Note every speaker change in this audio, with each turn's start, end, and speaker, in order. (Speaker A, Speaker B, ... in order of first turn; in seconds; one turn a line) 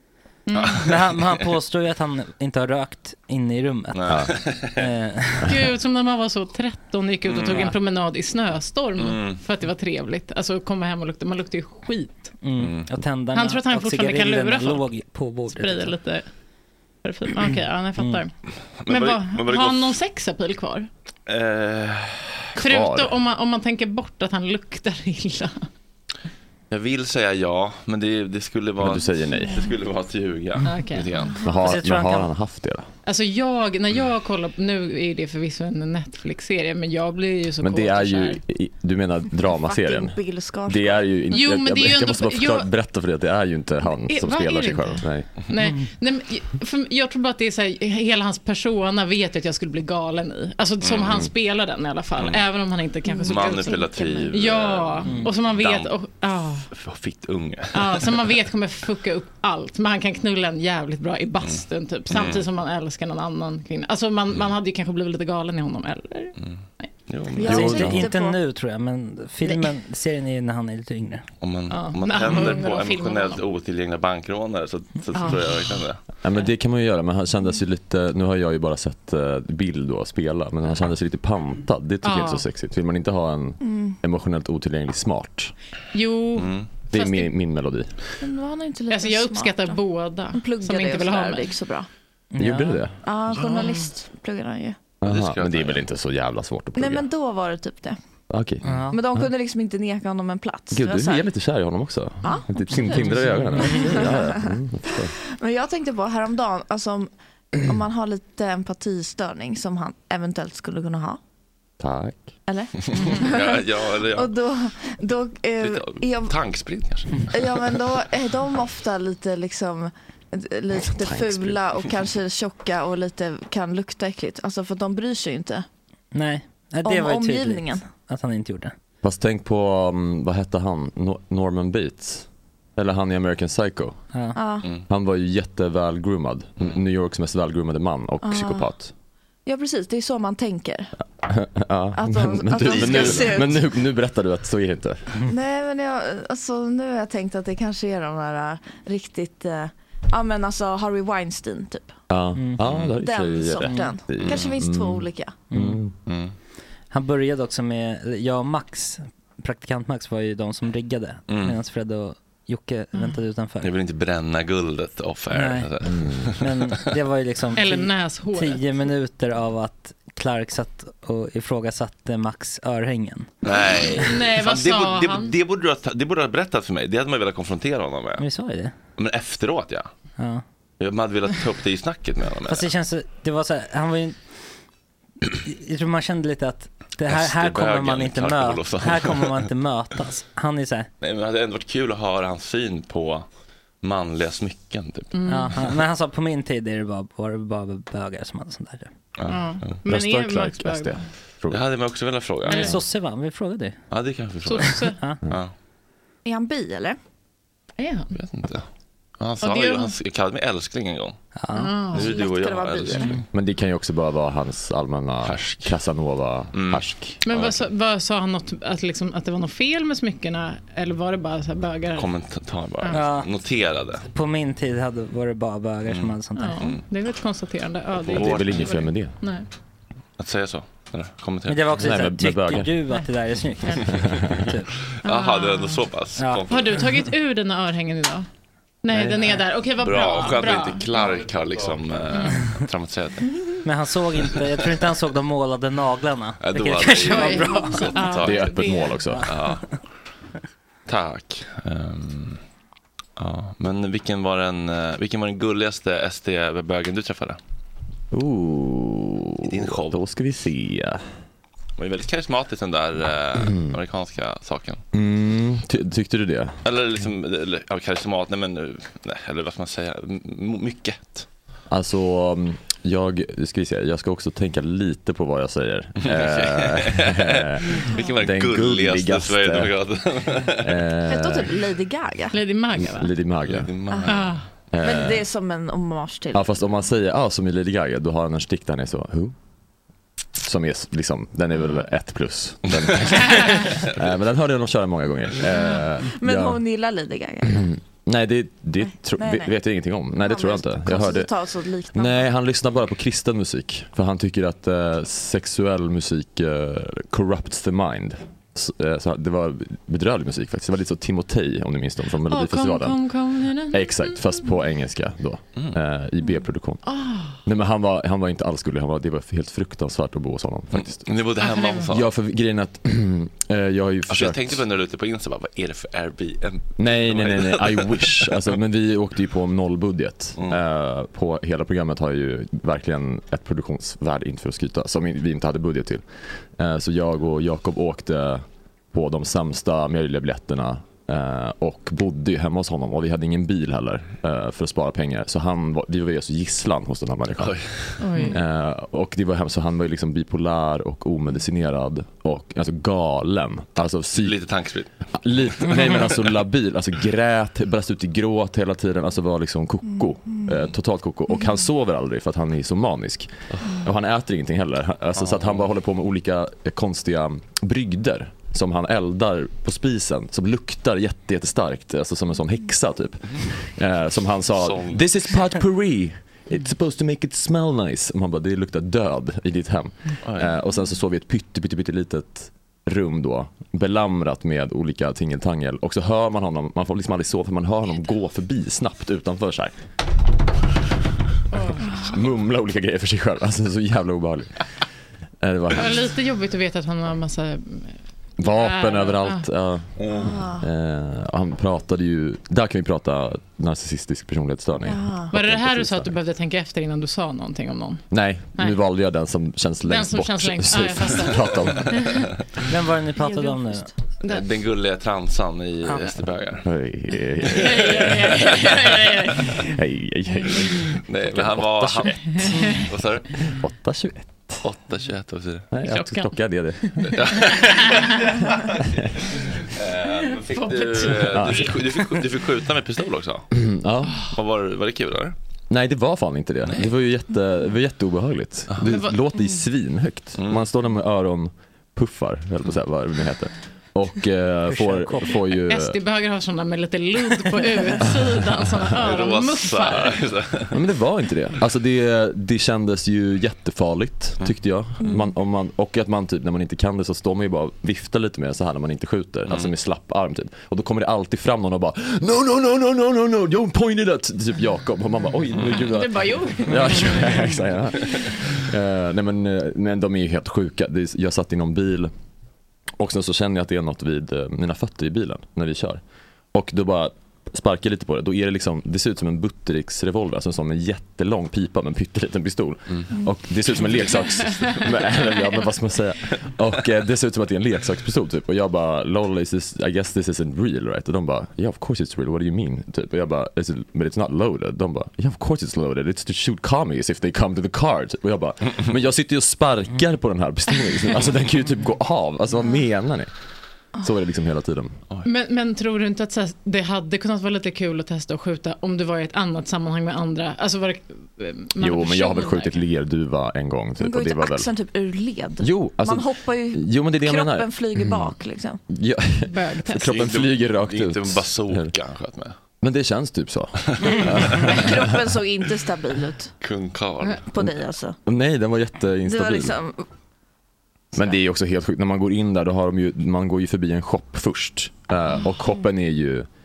Speaker A: 0.5-0.8
Speaker B: 0.6-1.3
Speaker C: 0.7-5.5
Speaker B: 3.9-4.9
Speaker A: 5.5-12.3
Speaker B: 7.3-7.7
Speaker B: 9.0-9.4
Speaker C: 12.4-15.9
Speaker B: 12.6-12.9
Speaker A: 13.3-14.9
Speaker A: 15.5-16.3
Speaker A: 17.0-18.3
Speaker B: 18.8-20.0
Speaker A: 18.9-20.9
Speaker B: 21.3-22.5
Speaker D: 22.6-23.2
Speaker A: 22.6-25.6
Speaker B: 26.7-31.4
Speaker D: 28.8-29.7
Speaker A: 30.6-31.2
Speaker D: 31.4-32.9
Speaker C: 31.6-32.3
Speaker A: 33.1-38.4
Speaker D: 37.6-45.3
Speaker E: 39.5-41.0
Speaker A: 41.3-42.7
Speaker A: 44.1-56.7
Speaker C: 45.6-45.9
Speaker B: 50.8-51.3
Speaker B: 52.2-52.4
Speaker E: 53.1-54.1
Speaker B: 53.3-55.9
Speaker C: 55.0-55.3
Speaker B: 56.7-58.4
Speaker A: 57.7-66.3
Speaker B: 61.4-62.5
Speaker B: 66.4-67.7
Speaker E: 67.4-68.4
Speaker D: 67.5-68.1
Speaker C: 67.5-71.2
Speaker B: 71.4-76.0
Speaker A: 71.7-73.4
Speaker A: 75.2-75.4
Speaker D: 76.2-85.5
Speaker A: 82.0-82.4
Speaker E: 83.6-84.0
Speaker A: 85.9-87.3
Speaker B: 86.4-86.7
Speaker D: 86.9-87.9
Speaker E: 88.2-89.8
Speaker A: 88.9-91.6
Speaker E: 90.3-91.9
Speaker C: 92.3-92.8
Speaker D: 92.4-93.0
Speaker E: 93.0-94.8
Speaker B: 93.3-93.7
Speaker D: 95.0-97.1
Speaker B: 95.0-95.8
Speaker E: 96.8-98.0
Speaker D: 98.3-98.7
Speaker C: 98.6-99.0
Speaker E: 98.9-101.3
Speaker D: 100.7-105.1
Speaker E: 102.2-104.5
Speaker C: 103.0-103.8
Speaker E: 105.4-111.2
Speaker D: 111.8-112.3
Speaker E: 112.5-116.3
Speaker B: 112.9-114.3
Speaker B: 115.6-117.5
Speaker E: 117.3-125.7
Speaker D: 120.9-121.6
Speaker C: 126.1-128.7
Speaker E: 126.8-127.8
Speaker D: 129.0-134.0
Speaker E: 134.3-134.7
Speaker D: 134.9-138.9
Speaker E: 138.2-138.7
Speaker E: 139.5-141.0
Speaker D: 141.2-145.1
Speaker E: 142.0-143.6
Speaker B: 142.6-143.5
Speaker E: 145.3-151.9
Speaker D: 152.1-155.9
Speaker C: 152.4-152.6
Speaker E: 153.0-155.4
Speaker C: 153.6-153.9
Speaker C: 155.5-155.8
Speaker B: 156.1-156.3
Speaker C: 156.9-163.7
Speaker B: 161.3-161.6
Speaker A: 162.9-163.2
Speaker B: 163.6-166.5
Speaker C: 165.3-165.7
Speaker D: 165.8-166.3
Speaker C: 166.4-173.3
Speaker A: 167.6-168.6
Speaker B: 173.4-178.2
Speaker A: 174.0-175.3
Speaker C: 178.2-178.7
Speaker B: 179.0-179.9
Speaker C: 180.2-180.4
Speaker B: 180.8-182.7
Speaker C: 182.5-184.2
Speaker C: 185.4-190.9
Speaker B: 187.1-189.5
Speaker B: 191.0-193.3
Speaker B: 193.8-195.1
Speaker A: 195.1-195.6
Speaker C: 195.3-198.9
Speaker B: 199.2-199.7
Speaker A: 199.3-201.1
Speaker D: 199.9-201.6
Speaker B: 201.5-202.8
Speaker A: 202.5-202.7
Speaker C: 202.5-203.8
Speaker B: 203.9-205.5
Speaker A: 204.4-205.0
Speaker E: 206.2-207.0
Speaker A: 207.8-208.1
Speaker B: 208.1-208.7
Speaker B: 209.2-211.2
Speaker A: 209.4-209.9
Speaker C: 211.4-211.7
Speaker A: 211.6-212.1
Speaker B: 211.9-213.2
Speaker E: 211.9-213.2
Speaker D: 213.3-217.2
Speaker B: 215.2-215.8
Speaker B: 216.5-217.6
Speaker A: 217.2-222.1
Speaker B: 221.9-224.1
Speaker A: 222.8-223.1
Speaker C: 222.9-223.3
Speaker C: 224.1-226.7
Speaker B: 225.9-226.8
Speaker A: 226.3-229.5
Speaker B: 228.1-228.8
Speaker D: 228.1-229.2
Speaker B: 230.2-231.9
Speaker C: 231.5-234.7
Speaker D: 231.8-232.7
Speaker A: 233.6-233.9
Speaker D: 233.9-234.2
Speaker B: 234.9-236.9
Speaker A: 235.1-235.9
Speaker C: 236.2-236.4
Speaker A: 236.5-238.3
Speaker A: 238.8-240.8
Speaker C: 238.9-239.4
Speaker B: 239.8-243.4
Speaker A: 242.1-242.4
Speaker C: 243.6-247.9
Speaker B: 246.4-248.5
Speaker A: 247.1-249.1
Speaker D: 248.2-249.2
Speaker C: 249.1-249.5
Speaker B: 249.3-249.7
Speaker B: 250.9-252.4
Speaker B: 253.2-257.4
Speaker D: 258.1-261.0
Speaker B: 259.4-260.0
Speaker B: 261.8-264.8
Speaker D: 263.4-263.7
Speaker D: 264.9-266.6
Speaker B: 266.6-271.3
Speaker D: 271.7-279.7
Speaker B: 276.0-280.8
Speaker D: 280.6-281.6
Speaker E: 281.1-282.4
Speaker A: 282.3-283.1
Speaker D: 282.8-283.7
Speaker B: 283.4-284.4
Speaker E: 283.9-284.2
Speaker A: 284.1-284.4
Speaker D: 284.7-285.2
Speaker E: 284.8-286.4
Speaker D: 286.3-289.4
Speaker D: 290.4-296.6
Speaker B: 292.7-293.9
Speaker E: 296.1-297.7
Speaker D: 297.5-301.3
Speaker E: 299.2-299.5
Speaker E: 300.2-302.3
Speaker D: 301.9-313.0
Speaker A: 312.3-314.2
Speaker D: 313.7-316.9
Speaker A: 316.9-317.4
Speaker D: 317.4-321.0
Speaker B: 320.7-322.1
Speaker A: 321.4-321.9
Speaker D: 321.9-324.6
Speaker B: 324.1-328.5
Speaker D: 326.8-347.6
Speaker B: 347.4-348.1
Speaker A: 348.0-348.4
Speaker D: 348.3-354.4
Speaker B: 354.1-355.1
Speaker D: 355.1-389.7
Speaker B: 355.7-356.2
Speaker B: 365.2-365.7
Speaker B: 374.6-375.4
Speaker B: 380.2-380.5
Speaker A: 391.5-391.8
Speaker D: 391.8-394.5
Speaker D: 395.4-396.0
Speaker A: 395.7-399.4
Speaker D: 398.4-406.1
Speaker B: 400.0-400.3
Speaker E: 400.1-400.7
Speaker E: 404.9-405.3
Speaker A: 405.3-408.0
Speaker D: 408.1-412.3
Speaker A: 409.8-411.5
Speaker C: 412.7-413.9
Speaker E: 413.2-413.9
Speaker B: 414.3-416.7
Speaker C: 415.9-416.1
Speaker D: 416.6-418.8
Speaker B: 417.5-419.4
Speaker A: 417.6-419.6
Speaker D: 419.4-422.8
Speaker B: 421.0-423.4
Speaker A: 422.3-422.8
Speaker D: 423.4-424.6
Speaker B: 424.6-425.7
Speaker D: 425.7-427.5
Speaker A: 425.9-426.9
Speaker B: 427.0-433.5
Speaker A: 427.7-428.4
Speaker A: 430.4-431.4
Speaker D: 431.3-432.3
Speaker D: 433.5-434.3
Speaker B: 434.2-435.4
Speaker D: 435.7-446.0
Speaker A: 438.8-439.2
Speaker B: 440.4-440.6
Speaker C: 444.7-445.4
Speaker A: 445.7-450.2
Speaker D: 448.1-448.7
Speaker B: 448.9-450.8
Speaker D: 450.7-472.1
Speaker E: 455.0-455.3
Speaker A: 465.7-467.4
Speaker D: 473.0-476.0
Speaker D: 476.5-503.3
Speaker B: 484.0-484.9
Speaker D: 504.0-505.0
Speaker A: 505.2-512.7
Speaker D: 511.8-514.7
Speaker E: 514.0-518.8
Speaker D: 515.6-518.4
Speaker D: 518.9-521.9
Speaker A: 519.5-520.1
Speaker B: 520.0-522.5
Speaker D: 522.8-525.0
Speaker B: 524.0-524.9
Speaker E: 524.6-526.5
Speaker B: 526.6-527.5
Speaker E: 527.5-528.2
Speaker D: 528.3-529.8
Speaker E: 529.3-530.0
Speaker D: 531.1-536.5